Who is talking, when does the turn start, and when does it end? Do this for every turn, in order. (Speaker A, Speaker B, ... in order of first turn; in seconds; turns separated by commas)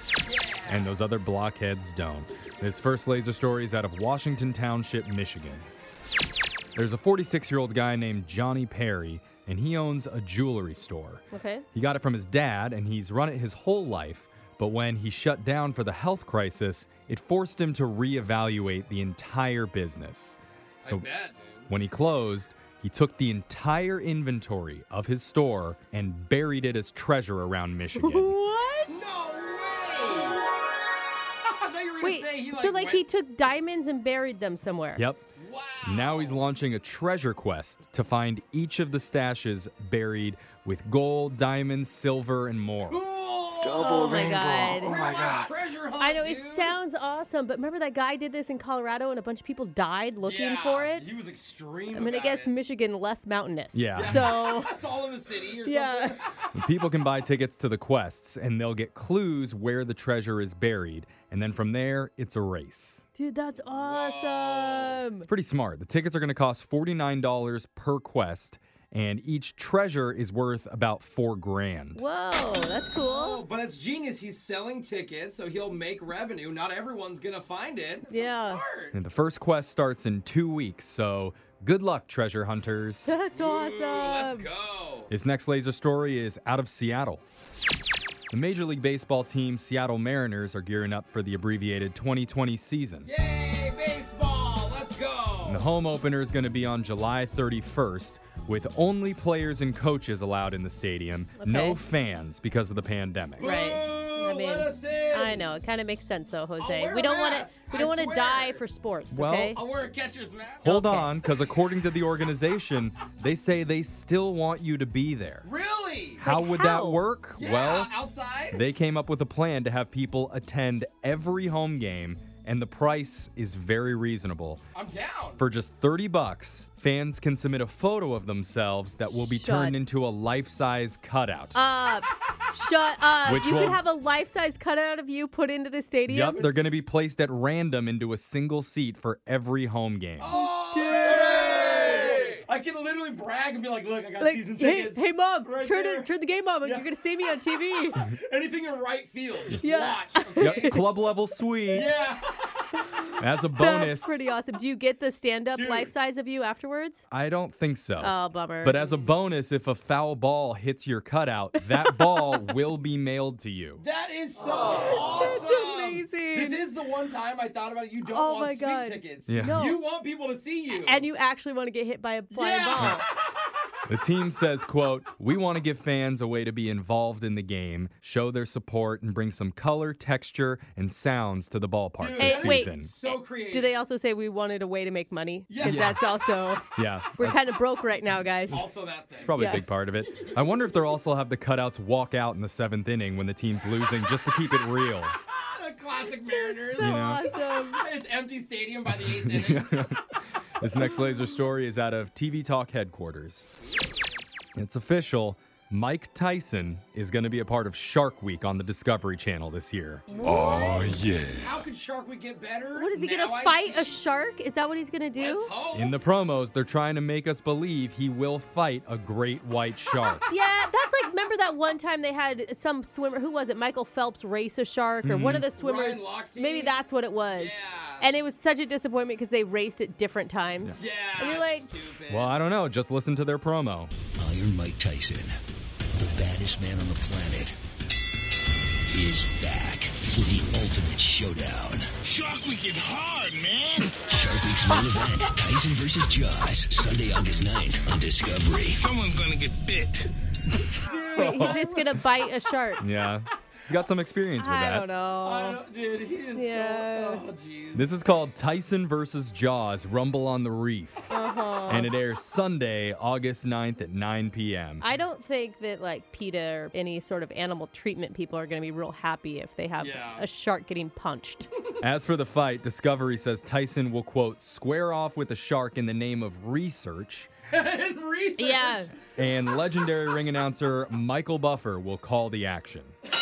Speaker A: 0.2-0.9, Speaker B: 0.7-5.6, Speaker B: 6.8-11.2, Speaker C: 11.3-11.6, Speaker B: 11.7-21.1, Speaker A: 20.8-21.7, Speaker B: 21.7-28.4, Speaker C: 28.0-29.0, Speaker A: 28.9-30.4, Speaker A: 31.4-33.0, Speaker C: 32.0-35.0, Speaker B: 35.0-35.2, Speaker A: 35.4-36.4, Speaker B: 35.8-43.0, Speaker A: 42.9-46.8, Speaker C: 43.8-45.1, Speaker D: 43.8-45.4, Speaker C: 46.0-51.1, Speaker A: 50.2-52.5, Speaker C: 51.9-54.7, Speaker B: 53.7-54.3, Speaker A: 53.9-56.5, Speaker C: 55.6-56.1, Speaker B: 56.5-63.0, Speaker C: 63.1-65.3, Speaker A: 63.7-65.0, Speaker B: 65.2-72.0, Speaker C: 72.0-73.4, Speaker A: 72.9-79.0, Speaker C: 78.1-78.6, Speaker B: 78.9-83.1, Speaker C: 83.0-84.5, Speaker A: 83.3-85.1, Speaker B: 85.1-87.2, Speaker B: 88.3-93.1, Speaker A: 93.0-95.7, Speaker B: 95.5-103.5, Speaker C: 101.4-101.8, Speaker A: 103.4-105.5, Speaker C: 103.4-109.6, Speaker A: 106.6-108.6, Speaker B: 109.1-109.6, Speaker A: 109.5-110.7, Speaker C: 110.6-111.1, Speaker B: 110.6-115.5, Speaker A: 115.4-116.2, Speaker C: 116.2-117.0, Speaker B: 116.2-117.9, Speaker A: 117.4-118.6, Speaker B: 118.5-124.6, Speaker A: 124.7-125.4, Speaker B: 125.4-131.6, Speaker C: 129.3-129.8, Speaker C: 131.5-136.6, Speaker B: 133.2-133.8, Speaker B: 136.1-140.3, Speaker A: 136.3-136.7, Speaker A: 140.2-146.1, Speaker C: 140.2-142.2, Speaker C: 144.2-148.0, Speaker A: 146.6-146.9, Speaker A: 147.9-150.8, Speaker C: 149.5-150.8, Speaker B: 150.4-151.9, Speaker A: 151.7-152.4, Speaker B: 153.2-154.2, Speaker C: 153.6-157.0, Speaker A: 155.5-155.9, Speaker B: 157.1-163.8, Speaker C: 158.0-158.9, Speaker C: 161.6-162.2, Speaker A: 163.8-171.1, Speaker C: 164.4-166.6, Speaker C: 168.1-169.8, Speaker B: 169.3-169.6, Speaker C: 170.8-173.0, Speaker A: 172.3-173.0, Speaker B: 173.9-182.9, Speaker A: 182.0-183.8, Speaker C: 182.2-188.6, Speaker A: 185.5-185.9, Speaker B: 185.6-186.0, Speaker B: 186.8-187.4, Speaker A: 188.5-189.4, Speaker B: 189.1-195.2, Speaker C: 189.3-189.7, Speaker A: 195.2-199.9, Speaker C: 196.2-197.8, Speaker B: 196.8-197.2, Speaker B: 198.9-203.6, Speaker B: 204.5-210.2, Speaker C: 210.1-211.1, Speaker A: 210.2-214.0, Speaker D: 210.2-211.6, Speaker C: 212.7-215.5, Speaker A: 215.2-215.9, Speaker B: 215.7-220.2, Speaker C: 220.3-231.9, Speaker B: 225.0-225.4, Speaker A: 225.5-226.8, Speaker A: 227.3-228.1, Speaker A: 230.8-232.4, Speaker B: 232.1-233.9, Speaker E: 234.1-235.3, Speaker E: 235.9-237.6, Speaker E: 238.9-242.0, Speaker D: 242.0-244.1, Speaker E: 244.1-248.8, Speaker D: 248.8-250.1, Speaker A: 250.8-251.8, Speaker B: 251.1-252.0, Speaker C: 251.2-252.8, Speaker B: 252.8-254.9, Speaker C: 254.4-255.6, Speaker A: 255.2-257.9, Speaker C: 256.3-257.2, Speaker B: 257.7-261.1, Speaker C: 261.1-261.9, Speaker B: 261.7-264.9, Speaker C: 264.8-271.5, Speaker A: 269.8-270.2, Speaker B: 271.8-277.3, Speaker A: 277.5-278.9, Speaker C: 278.4-278.9, Speaker B: 279.1-282.9